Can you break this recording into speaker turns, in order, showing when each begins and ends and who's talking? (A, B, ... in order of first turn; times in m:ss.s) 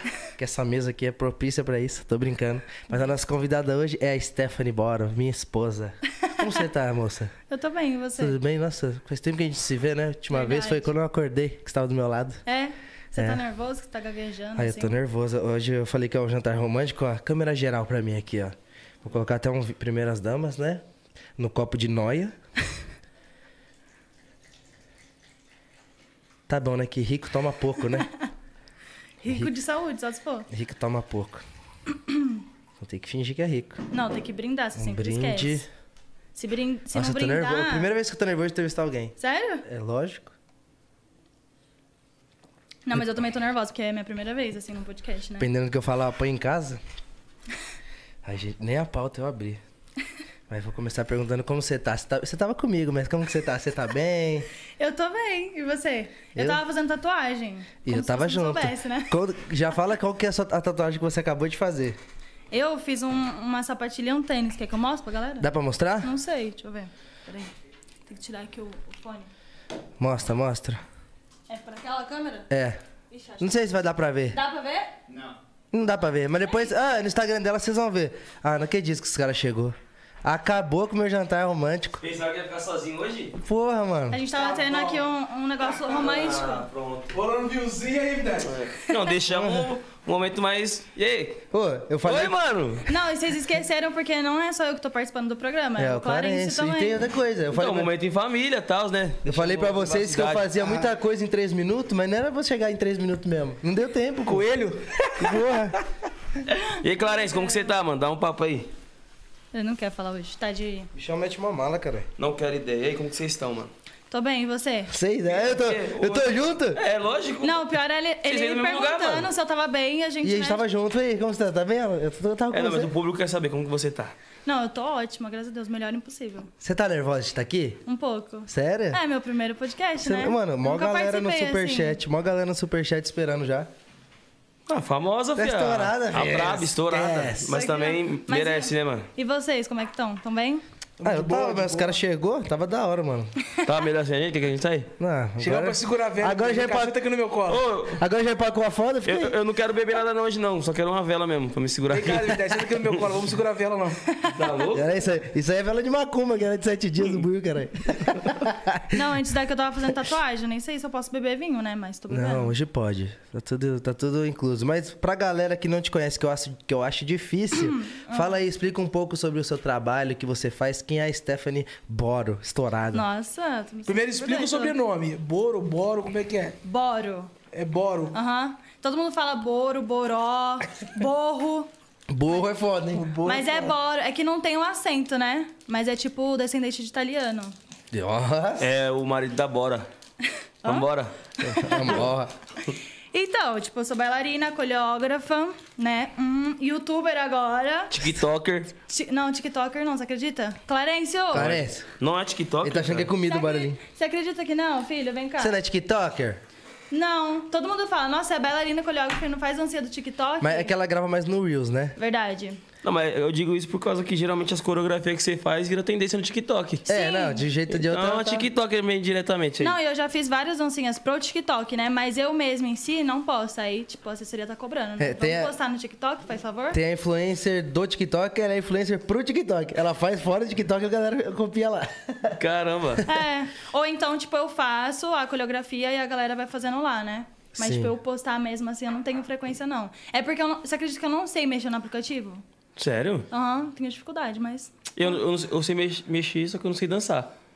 0:00.4-0:07.3 A
0:07.5-0:08.4 B
0:08.2-0:12.4 A
0:10.3-0:10.9 B
0:12.4-0:14.9 B
0:13.2-0:13.4 A
0:14.6-0:20.8 A
0:21.4-0:22.3 A
0:26.5-0:28.1 A
0:29.2-0:30.5 B
0:30.5-0:31.4 A
0:32.8-0:33.8 A
0:33.9-0:35.6 B
0:34.8-0:35.7 A
0:36.3-0:37.9 B
0:36.9-0:40.3 A
0:39.2-0:39.6 B
0:42.8-0:45.5 B
0:45.4-0:46.8 A
0:48.2-0:49.6 A
0:50.5-0:54.5 A
0:54.8-0:59.1 B
0:56.3-0:56.6 A
0:57.8-1:02.0 A
1:02.5-1:05.5 B
1:05.4-1:06.1 A
1:06.0-1:07.5 B
1:08.0-1:09.3 B
1:10.0-1:10.8 A
1:11.5-1:12.5 B
1:12.5-1:12.8 A
1:13.1-1:13.5 B
1:13.4-1:14.4 A
1:14.3-1:14.9 B
1:15.7-1:22.0 A
1:22.0-1:23.3 C
1:23.4-1:24.2 A
1:24.1-1:26.6 B
1:24.3-1:25.0 D
1:25.8-1:27.1 C
1:27.1-1:28.6 D
1:28.4-1:31.4 C
1:29.3-1:29.7 A
1:31.5-1:32.3 A
1:32.0-1:32.9 C
1:32.8-1:37.0 B
1:35.8-1:37.9 A
1:37.5-1:40.7 C
1:39.2-1:44.5 A
1:44.2-1:45.5 D
1:45.1-1:45.8 A
1:46.8-1:48.7 C
1:47.0-1:47.7 B
1:49.5-1:50.9 B
1:50.9-1:52.1 A
1:52.2-1:53.7 C
1:54.1-1:54.9 B
1:54.9-1:56.8 A
1:55.3-1:57.7 C
1:57.4-2:00.6 B
1:58.2-1:59.3 C
2:00.2-2:02.9 A
2:02.5-2:04.1 C
2:04.4-2:06.5 B
2:06.6-2:07.8 A
2:07.8-2:12.0 B
2:08.5-2:09.0 A
2:10.0-2:13.7 A
2:14.7-2:19.1 C
2:15.4-2:17.6 A
2:17.5-2:20.6 B
2:21.0-2:22.0 D
2:21.0-2:23.3 A
2:23.6-2:24.9 C
2:25.0-2:27.0 A
2:25.4-2:27.7 D
2:27.4-2:28.0 C
2:28.0-2:29.3 A
2:29.0-2:32.8 C
2:31.9-2:34.0 D
2:34.1-2:34.5 B
2:34.3-2:34.9 C
2:34.7-2:39.0 A
2:38.9-2:42.5 B
2:42.1-2:53.0 A
2:47.5-2:48.4 B
2:52.9-2:54.8 B
2:53.9-2:56.6 D
2:56.6-2:57.3 B
2:57.5-2:58.2 D
2:58.1-3:01.7 B
3:02.1-3:03.1 A
3:02.9-3:03.7 D
3:03.2-3:07.5 B
3:07.9-3:08.7 A
3:08.6-3:09.8 C
3:10.6-3:12.0 B
3:10.6-3:11.1 C
3:11.4-3:12.3 A
3:13.1-3:18.1 B
3:17.9-3:18.7 C
3:18.9-3:21.5 B
3:21.3-3:21.9 A
3:21.3-3:23.1 C
3:22.6-3:23.8 A
3:23.3-3:25.6 B
3:25.4-3:26.4 A
3:26.9-3:30.7 B
3:30.4-3:32.0 A
3:32.0-3:32.6 B
3:32.8-3:36.8 C
3:36.8-3:37.4 B
3:36.9-3:38.5 A
3:37.7-3:39.8 C
3:39.6-3:46.8 B
3:45.0-3:45.5 A
3:46.7-3:52.4 A
3:52.4-3:53.0 C
3:53.0-4:02.4 B
3:57.5-3:57.9 A
4:02.8-4:03.3 C
4:03.3-4:05.2 B
4:05.0-4:07.3 C